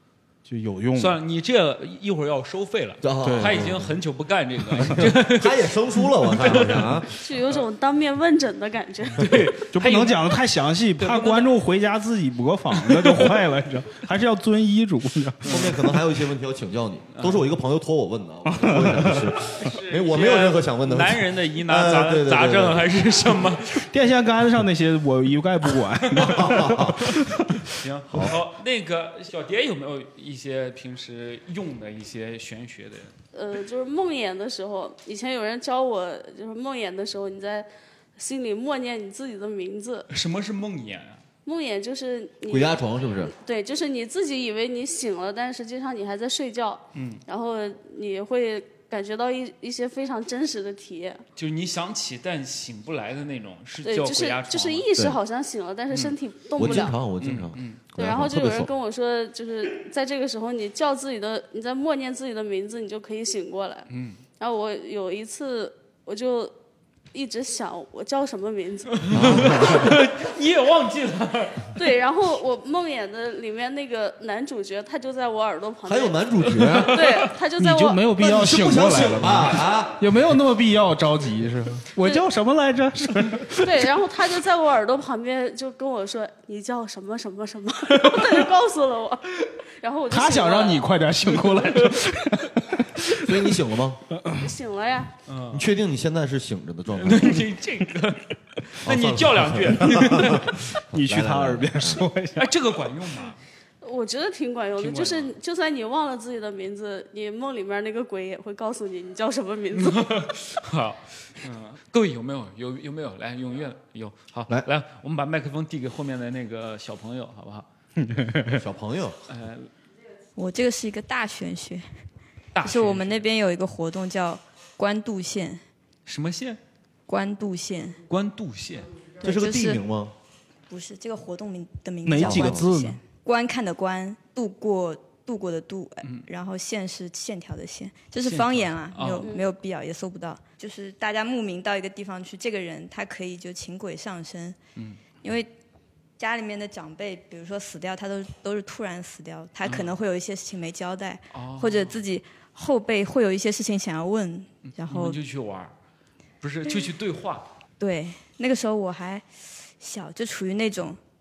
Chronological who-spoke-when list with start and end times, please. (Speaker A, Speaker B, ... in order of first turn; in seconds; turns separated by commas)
Speaker A: 0.4-1.2, Speaker B: 0.9-7.6, Speaker C: 3.0-3.9, Speaker A: 3.2-3.6, Speaker A: 4.7-5.0, Speaker C: 4.8-7.1, Speaker D: 7.2-9.3, Speaker B: 9.2-10.4, Speaker A: 9.7-15.6, Speaker B: 11.0-11.5, Speaker B: 12.9-13.3, Speaker B: 15.4-15.7, Speaker C: 15.5-22.9, Speaker B: 17.1-17.5, Speaker A: 18.5-19.3, Speaker B: 19.1-23.9, Speaker A: 23.9-27.6, Speaker C: 26.2-27.1, Speaker B: 27.7-33.1, Speaker C: 28.1-28.4, Speaker D: 33.3-40.1, Speaker B: 40.1-41.2, Speaker D: 41.4-51.2, Speaker C: 42.5-43.3, Speaker B: 46.9-47.2, Speaker B: 51.4-54.9, Speaker D: 53.8-57.0, Speaker C: 56.5-58.7, Speaker B: 56.8-57.8, Speaker D: 57.9-63.9, Speaker B: 63.9-64.2, Speaker D: 64.4-66.5, Speaker D: 67.1-69.1, Speaker B: 68.9-71.7, Speaker C: 69.1-70.0, Speaker D: 71.8-76.2, Speaker C: 75.8-77.1, Speaker B: 76.5-76.8, Speaker D: 76.9-78.0, Speaker A: 77.6-83.9, Speaker C: 78.2-80.0, Speaker D: 83.6-90.9, Speaker A: 88.1-88.4, Speaker A: 90.1-93.5, Speaker C: 93.2-94.0, Speaker A: 94.1-94.5, Speaker D: 94.4-95.1, Speaker B: 95.3-95.7, Speaker C: 95.5-97.4, Speaker B: 97.0-100.5, Speaker C: 98.8-102.1, Speaker A: 99.9-102.5, Speaker B: 102.3-103.4, Speaker D: 103.8-110.3, Speaker B: 104.8-105.3, Speaker B: 109.7-117.7, Speaker A: 118.0-118.6, Speaker C: 118.5-119.2, Speaker B: 119.3-119.7, Speaker E: 120.3-121.8, Speaker B: 122.5-123.3, Speaker E: 122.6-125.6, Speaker B: 126.0-126.6, Speaker E: 127.1-128.0, Speaker B: 128.1-128.9, Speaker E: 129.2-129.8, Speaker C: 129.2-130.1, Speaker E: 130.7-144.6, Speaker A: 132.1-133.0, Speaker C: 132.2-132.7, Speaker B: 138.2-139.3, Speaker D: 139.2-139.5, Speaker E: 145.2-145.5, Speaker E: 146.2-155.2, Speaker B: 149.6-149.9, Speaker B: 151.3-152.0, Speaker B: 154.7-155.7, Speaker B: 156.4-157.4, Speaker E: 157.8-159.2, Speaker E: 159.8-161.0